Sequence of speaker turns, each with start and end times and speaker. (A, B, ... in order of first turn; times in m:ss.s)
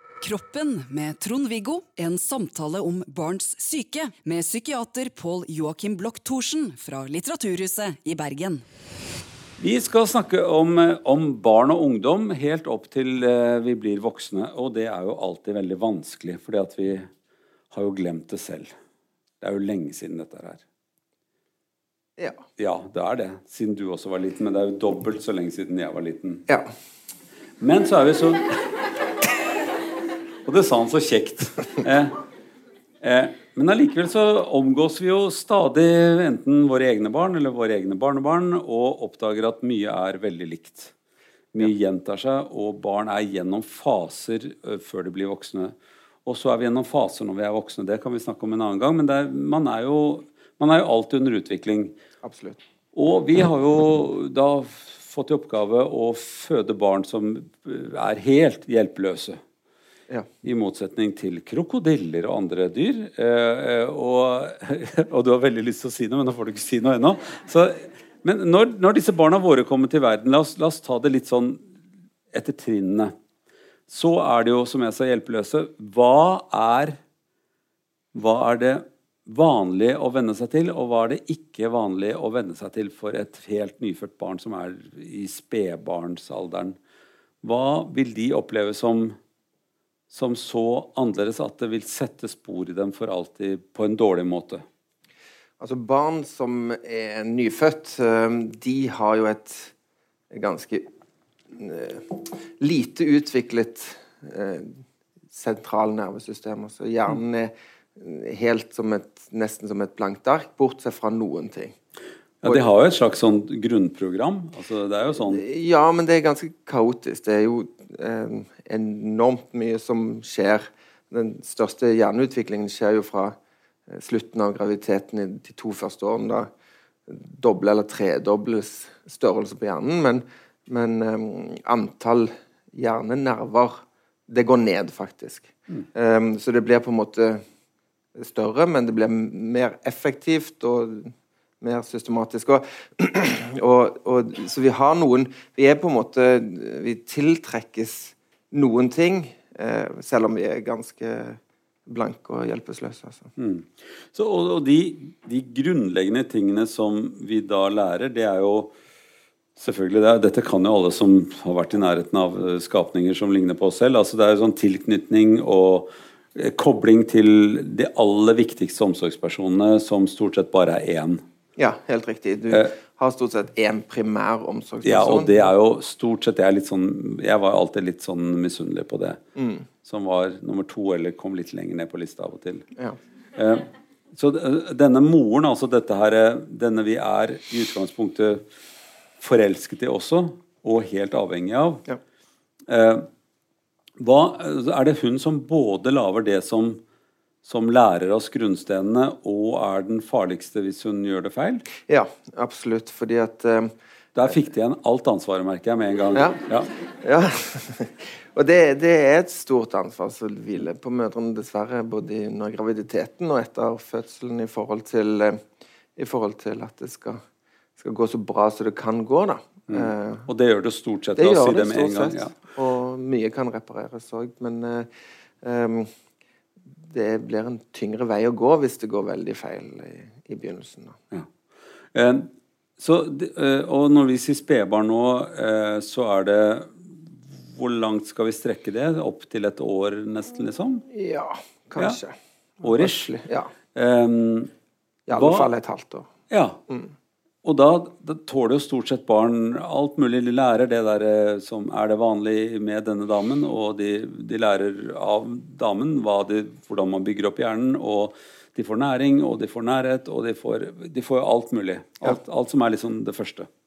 0:00.2-0:08.6 A
0:09.6-0:17.1 B
0:17.7-0:18.7 B
0:19.4-0:20.6 B
0:22.2-0:22.4 C
0:22.6-0:26.4 B
0:27.6-0:28.7 B
0:30.4-0:32.2 B
0:33.0-0:40.9 B
0:41.5-0:52.0 B
0:52.2-0:52.6 C
0:52.9-0:59.4 B
1:00.4-1:11.6 B
1:12.3-1:13.1 B
1:13.9-1:17.0 B
1:18.1-1:26.8 B
1:27.4-1:29.2 B
1:30.1-1:34.6 B
1:35.6-1:39.7 C
1:40.3-1:40.9 C
1:41.5-1:51.8 C
1:52.4-1:55.4 B
1:55.2-2:03.4 C
2:03.9-2:06.5 C
2:07.1-2:17.4 C
2:18.2-2:33.3 C
2:33.4-2:38.8 B
2:39.6-2:51.2 B
2:51.6-2:55.5 C
2:54.8-2:59.2 B
2:59.4-2:59.7 C
2:59.8-3:02.7 B
3:03.4-3:08.4 B
3:09.2-3:11.8 B
3:12.7-3:13.1 B
3:14.0-3:16.8 B
3:17.4-3:21.6 B
3:21.9-3:23.7 C
3:24.2-3:26.7 B
3:26.1-3:35.4 C
3:36.0-3:37.2 C
3:37.8-3:40.3 C
3:39.7-3:42.3 B
3:41.2-3:44.9 C
3:45.4-3:45.9 C
3:46.8-3:51.0 C
3:51.9-4:00.8 B
4:00.9-4:03.5 C
4:02.6-4:03.1 B
4:03.8-4:04.5 B
4:05.1-4:06.1 C
4:05.1-4:05.5 B
4:06.3-4:06.6 B
4:07.4-4:23.5 B